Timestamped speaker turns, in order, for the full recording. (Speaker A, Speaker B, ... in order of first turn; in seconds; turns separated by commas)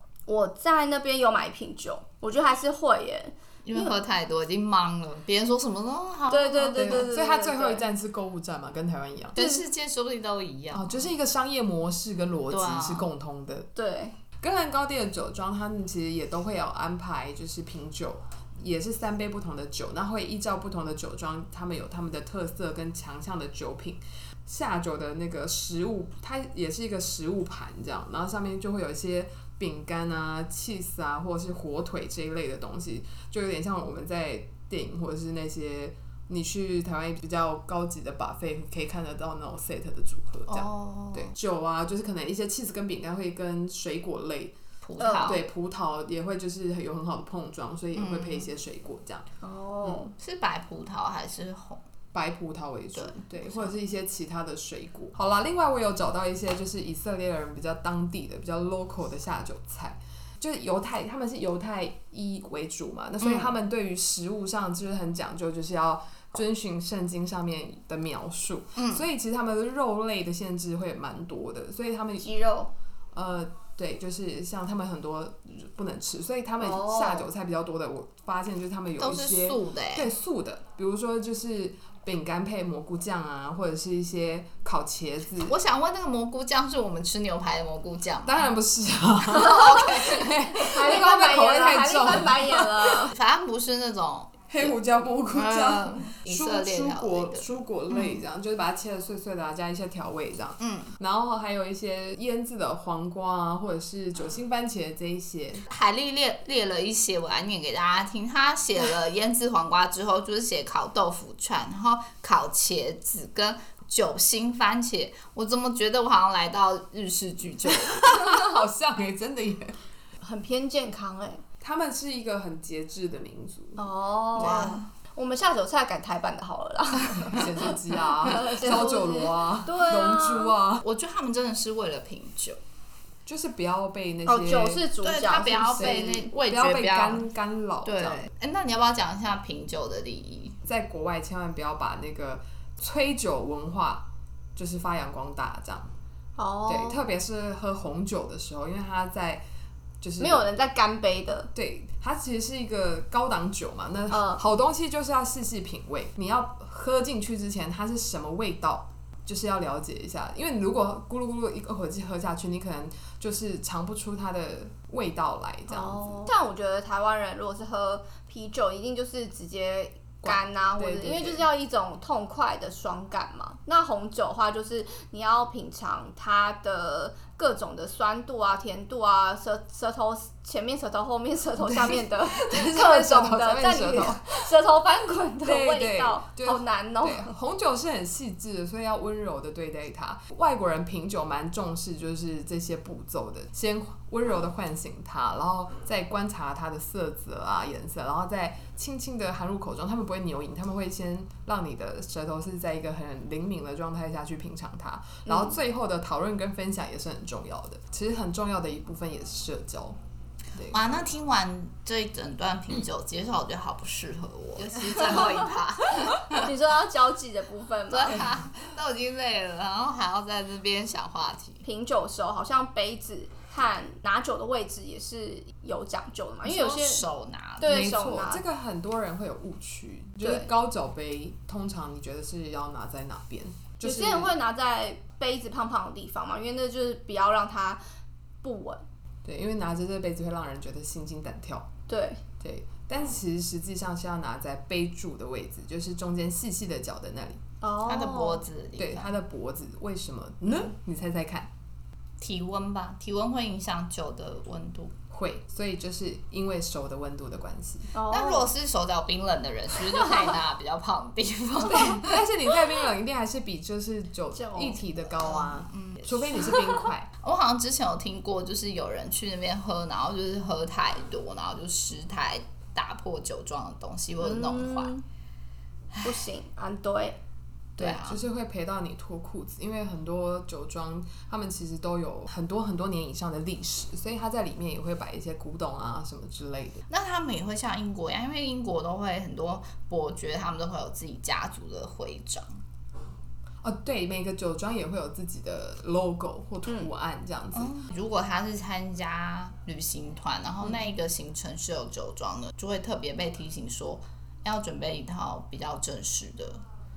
Speaker A: 0.3-4.0, Speaker B: 3.6-7.0, Speaker A: 6.3-7.8, Speaker C: 6.7-9.4, Speaker B: 9.3-11.0, Speaker A: 9.3-9.6, Speaker C: 10.7-13.7, Speaker B: 12.5-13.1, Speaker A: 13.7-14.2, Speaker C: 14.4-44.5, Speaker B: 40.5-41.3, Speaker B: 44.8-45.4, Speaker A: 45.0-45.4, Speaker C: 45.1-49.2, Speaker B: 47.9-48.5, Speaker A: 49.4-50.1, Speaker C: 49.8-50.1, Speaker B: 50.2-51.8, Speaker C: 52.1-72.3, Speaker B: 52.9-53.8, Speaker B: 63.2-63.5, Speaker B: 68.8-69.1, Speaker A: 72.2-72.7, Speaker C: 73.1-85.6, Speaker A: 76.6-77.3, Speaker B: 79.0-80.1, Speaker B: 85.4-88.5, Speaker C: 88.2-93.1, Speaker B: 89.3-90.4, Speaker A: 90.6-93.1, Speaker B: 93.1-94.7, Speaker C: 94.5-105.6, Speaker B: 95.3-98.2, Speaker B: 100.6-100.9, Speaker B: 105.7-118.0, Speaker C: 117.6-119.7, Speaker A: 120.2-121.4, Speaker C: 121.6-123.8, Speaker A: 123.8-130.5, Speaker B: 124.3-124.9, Speaker C: 124.4-124.7, Speaker C: 127.2-130.8, Speaker B: 130.8-132.6, Speaker C: 133.2-134.9, Speaker A: 134.2-136.3, Speaker B: 135.0-137.3, Speaker C: 135.8-138.2, Speaker B: 137.8-140.6, Speaker C: 140.6-145.9, Speaker A: 146.4-147.0, Speaker C: 146.7-149.4, Speaker C: 150.0-150.5, Speaker A: 150.2-151.5, Speaker C: 151.5-166.3, Speaker A: 154.1-154.4, Speaker A: 165.7-187.3, Speaker C: 170.2-171.5, Speaker C: 181.6-184.4, Speaker C: 185.4-210.0, Speaker A: 205.2-205.6, Speaker C: 210.5-211.0, Speaker B: 210.7-216.5, Speaker A: 216.3-218.3, Speaker B: 217.9-221.6, Speaker A: 221.6-227.0, Speaker B: 226.4-227.8, Speaker A: 227.6-228.4, Speaker C: 227.6-234.3, Speaker A: 230.2-230.5, Speaker A: 233.8-237.8, Speaker A: 238.4-238.8, Speaker C: 239.2-241.7, Speaker A: 241.9-242.2, Speaker C: 242.4-247.4, Speaker A: 247.6-248.4, Speaker B: 247.8-249.1, Speaker C: 248.8-251.5, Speaker B: 252.2-254.9, Speaker C: 255.1-257.9, Speaker A: 257.9-258.5, Speaker B: 258.1-262.2, Speaker C: 261.6-267.1, Speaker A: 264.3-264.8, Speaker B: 265.2-266.7, Speaker B: 267.2-274.9, Speaker A: 274.2-275.0, Speaker A: 276.0-277.2, Speaker C: 277.8-286.8, Speaker B: 277.8-278.2, Speaker B: 286.9-292.6, Speaker C: 293.6-297.7, Speaker B: 297.5-306.6